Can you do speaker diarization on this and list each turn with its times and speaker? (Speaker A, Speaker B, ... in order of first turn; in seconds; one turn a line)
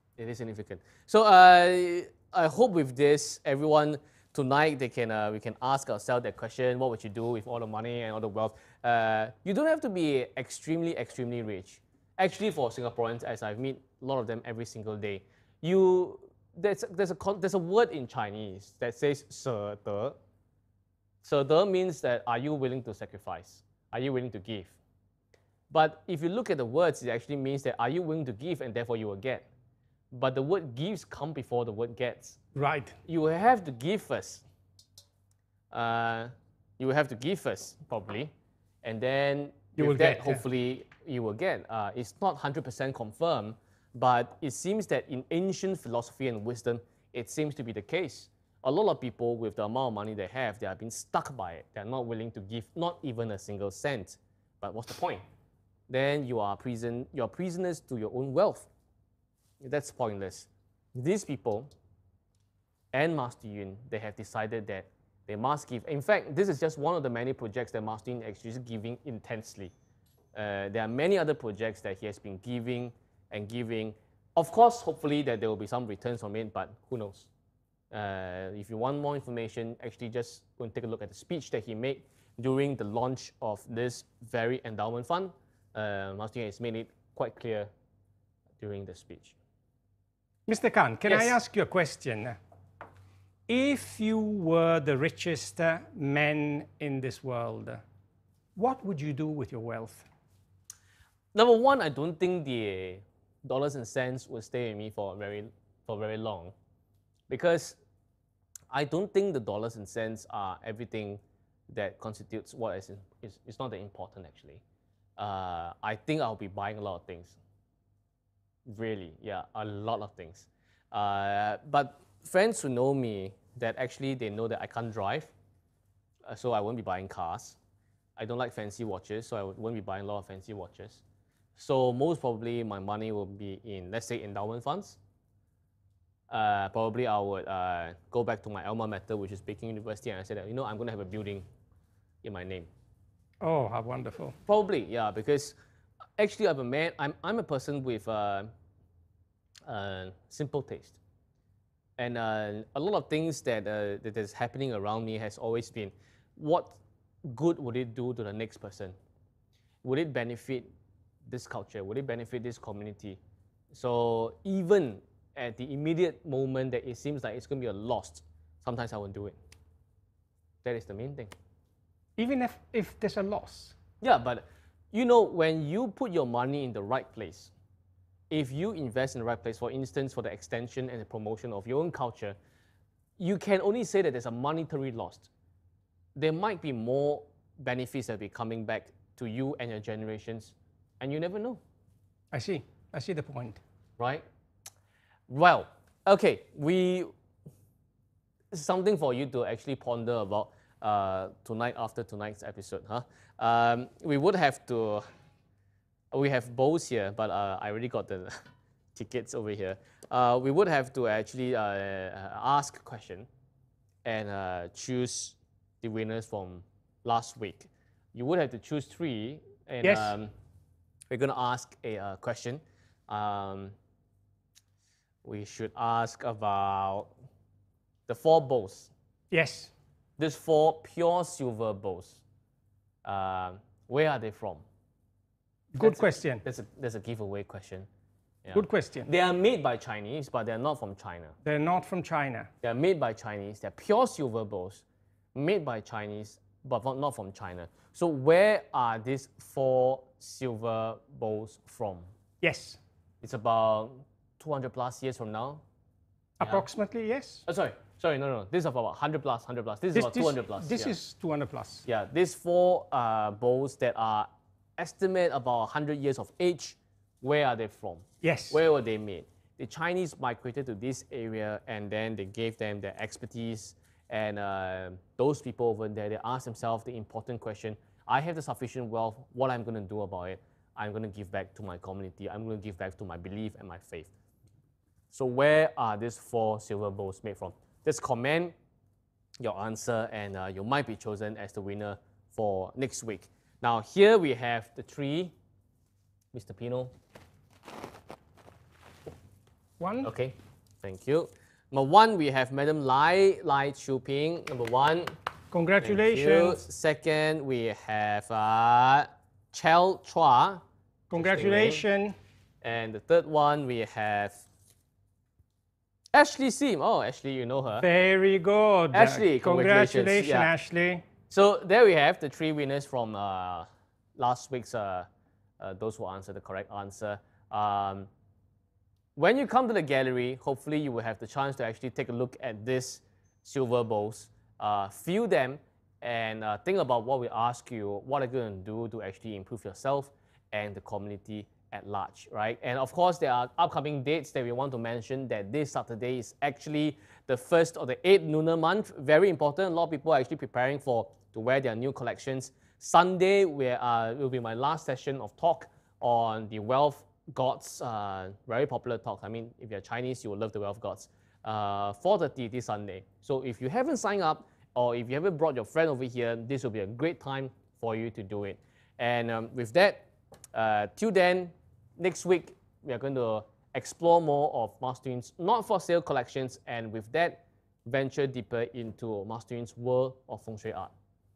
Speaker A: 0.2-20.2
Speaker A: 21.2-24.8
Speaker A: 25.7-29.5
Speaker A: 30.1-32.4
Speaker B: 32.5-33.0
Speaker A: 33.1-34.4
Speaker A: 35.7-38.3
Speaker A: 38.8-55.2
Speaker B: 39.8-40.4
Speaker A: 55.9-58.7
Speaker A: 59.6-61.7
Speaker A: 62.9-69.7
Speaker A: 70.3-77.3
Speaker A: 77.9-87.7
Speaker A: 88.6-89.4
Speaker B: 90.5-92.4
Speaker A: 91.1-91.4
Speaker B: 93.5-97.8
Speaker B: 98.6-100.0
Speaker A: 101.3-106.5
Speaker A: 107.3-107.8
Speaker A: 108.7-114.6
Speaker A: 115.2-117.4
Speaker A: 118.7-125.3
Speaker A: 126.3-127.6
Speaker A: 128.2-131.0
Speaker A: 131.6-135.0
Speaker A: 136.3-141.4
Speaker A: 142.2-142.7
Speaker B: 143.4-144.4
Speaker A: 144.5-145.6
Speaker A: 146.2-148.5
Speaker A: 149.7-151.0
Speaker A: 152.0-159.0
Speaker A: 159.8-160.7
Speaker A: 161.3-163.2
Speaker A: 163.7-169.4
Speaker A: 170.6-171.3
Speaker B: 172.2-173.8
Speaker A: 174.0-177.5
Speaker A: 178.3-182.4
Speaker A: 183.2-185.3
Speaker A: 186.2-191.6
Speaker B: 192.3-193.6
Speaker A: 194.0-194.3
Speaker A: 195.3-197.1
Speaker A: 198.5-205.1
Speaker A: 206.1-208.3
Speaker A: 208.9-213.3
Speaker A: 214.1-220.3
Speaker B: 219.8-220.1
Speaker A: 221.1-223.7
Speaker A: 225.2-227.1
Speaker A: 228.1-228.9
Speaker B: 229.3-229.7
Speaker A: 230.2-232.2
Speaker A: 233.1-234.7
Speaker B: 235.7-236.4
Speaker A: 235.8-237.9
Speaker A: 238.4-241.3
Speaker B: 238.5-239.1
Speaker B: 241.4-242.5
Speaker A: 242.6-244.8
Speaker A: 245.3-252.1
Speaker B: 252.4-252.8
Speaker A: 253.2-255.6
Speaker B: 256.4-257.4
Speaker A: 257.5-260.9
Speaker B: 259.9-261.9
Speaker A: 261.9-284.1
Speaker B: 268.2-268.6
Speaker A: 285.1-288.6
Speaker A: 289.4-295.3
Speaker A: 296.3-296.9
Speaker B: 299.8-300.1
Speaker A: 300.0-305.1
Speaker B: 305.5-306.7
Speaker A: 305.8-310.6
Speaker B: 311.1-312.1
Speaker A: 311.1-311.8
Speaker A: 312.6-314.4
Speaker A: 316.1-317.9
Speaker B: 317.8-321.0
Speaker A: 318.9-320.5
Speaker A: 321.3-325.1
Speaker A: 325.6-328.1
Speaker A: 329.2-380.9